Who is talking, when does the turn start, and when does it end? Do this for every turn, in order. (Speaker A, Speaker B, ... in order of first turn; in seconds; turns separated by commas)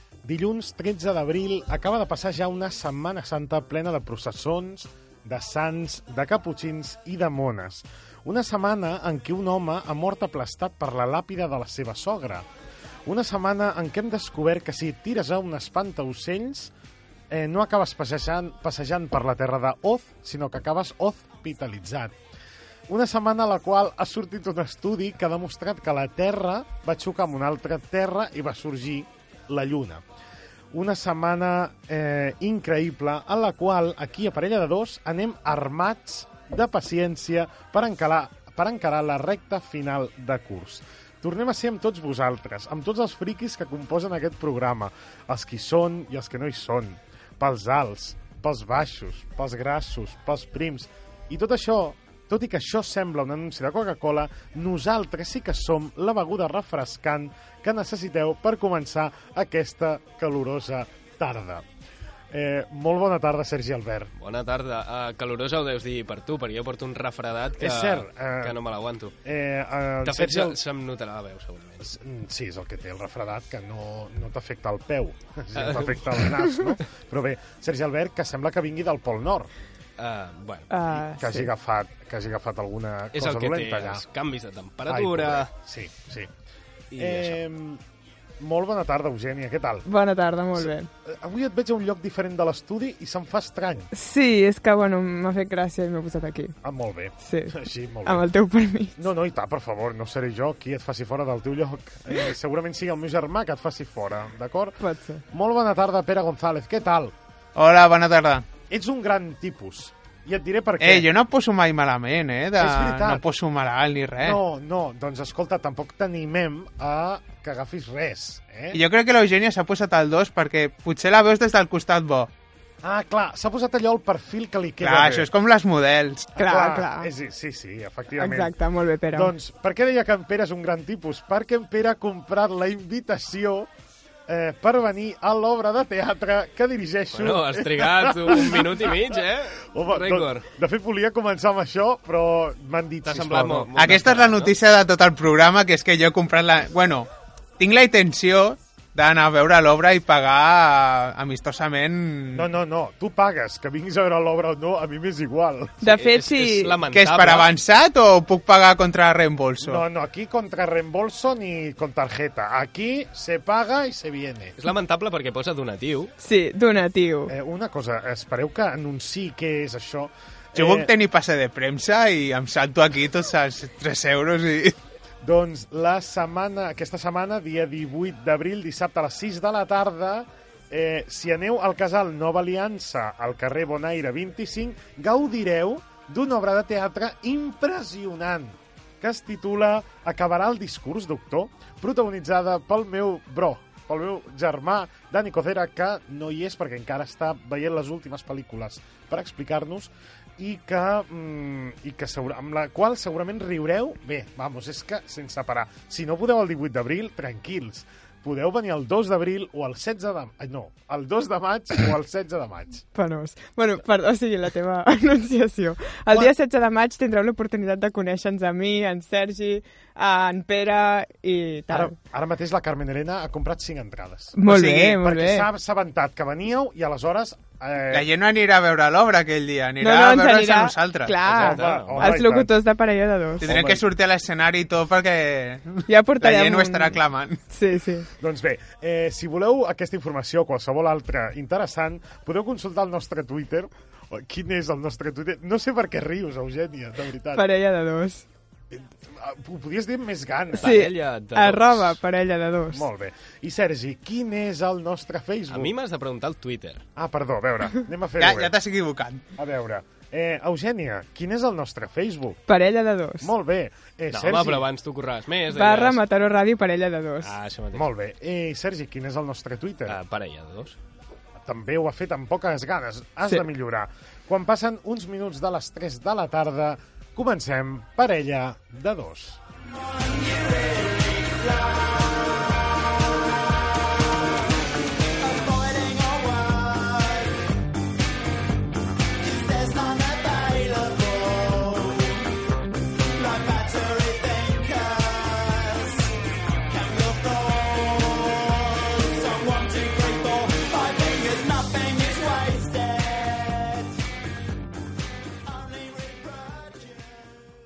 Speaker A: 0.2-12.5, Speaker A: 13.1-16.7, Speaker A: 17.3-22.2, Speaker A: 22.9-30.0, Speaker A: 30.7-61.7, Speaker A: 62.3-64.1, Speaker B: 64.2-69.2, Speaker A: 67.6-68.6, Speaker A: 69.2-70.6, Speaker B: 70.0-71.9, Speaker A: 71.8-79.5, Speaker B: 75.5-76.6, Speaker B: 80.0-80.7, Speaker C: 80.7-81.5, Speaker A: 80.9-84.0, Speaker B: 83.1-85.5, Speaker A: 84.9-86.3, Speaker B: 86.9-87.4, Speaker A: 87.0-87.8, Speaker A: 88.4-89.9, Speaker C: 89.9-90.9, Speaker A: 90.6-93.9, Speaker C: 93.9-96.5, Speaker A: 96.6-98.3, Speaker C: 97.2-99.0, Speaker A: 99.0-107.1, Speaker C: 104.8-105.2, Speaker D: 107.5-108.5, Speaker A: 108.7-111.1, Speaker D: 110.8-114.4, Speaker A: 112.6-113.2, Speaker A: 114.2-118.8, Speaker D: 118.7-122.3, Speaker A: 122.8-125.3, Speaker D: 124.8-126.3, Speaker C: 126.4-127.1, Speaker A: 126.4-128.6, Speaker C: 128.2-129.3, Speaker A: 129.1-133.7, Speaker A: 134.3-144.0, Speaker B: 137.1-140.5, Speaker B: 143.1-144.6, Speaker D: 143.8-147.1, Speaker D: 147.6-152.5, Speaker A: 152.3-155.8, Speaker C: 155.8-156.8, Speaker B: 155.8-157.5, Speaker D: 156.9-159.8, Speaker A: 159.6-164.6, Speaker B: 164.6-166.1, Speaker C: 166.2-167.3, Speaker A: 167.3-170.9, Speaker D: 170.6-174.8, Speaker A: 175.2-212.8, Speaker C: 212.9-222.0, Speaker A: 221.7-228.1, Speaker C: 224.3-225.5, Speaker D: 224.5-224.8, Speaker D: 227.9-231.2, Speaker C: 229.8-233.5, Speaker B: 231.2-232.2, Speaker A: 231.4-232.6, Speaker A: 233.4-233.8, Speaker D: 233.4-237.4, Speaker C: 235.9-238.1, Speaker A: 238.2-247.4, Speaker C: 247.3-248.3, Speaker A: 248.7-250.8, Speaker C: 250.6-252.8, Speaker B: 250.6-252.0, Speaker A: 252.7-255.7, Speaker B: 255.5-256.9, Speaker A: 257.0-258.5, Speaker D: 258.2-259.2, Speaker A: 259.4-262.4, Speaker C: 262.5-263.3, Speaker A: 263.2-264.7, Speaker B: 264.1-266.0, Speaker C: 265.5-267.3, Speaker B: 267.2-267.9, Speaker A: 267.7-270.0, Speaker B: 269.9-270.8, Speaker A: 271.4-279.4, Speaker E: 280.0-282.1, Speaker E: 285.2-287.3, Speaker E: 289.2-292.2, Speaker E: 293.2-296.1, Speaker E: 296.7-303.9, Speaker E: 305.5-307.0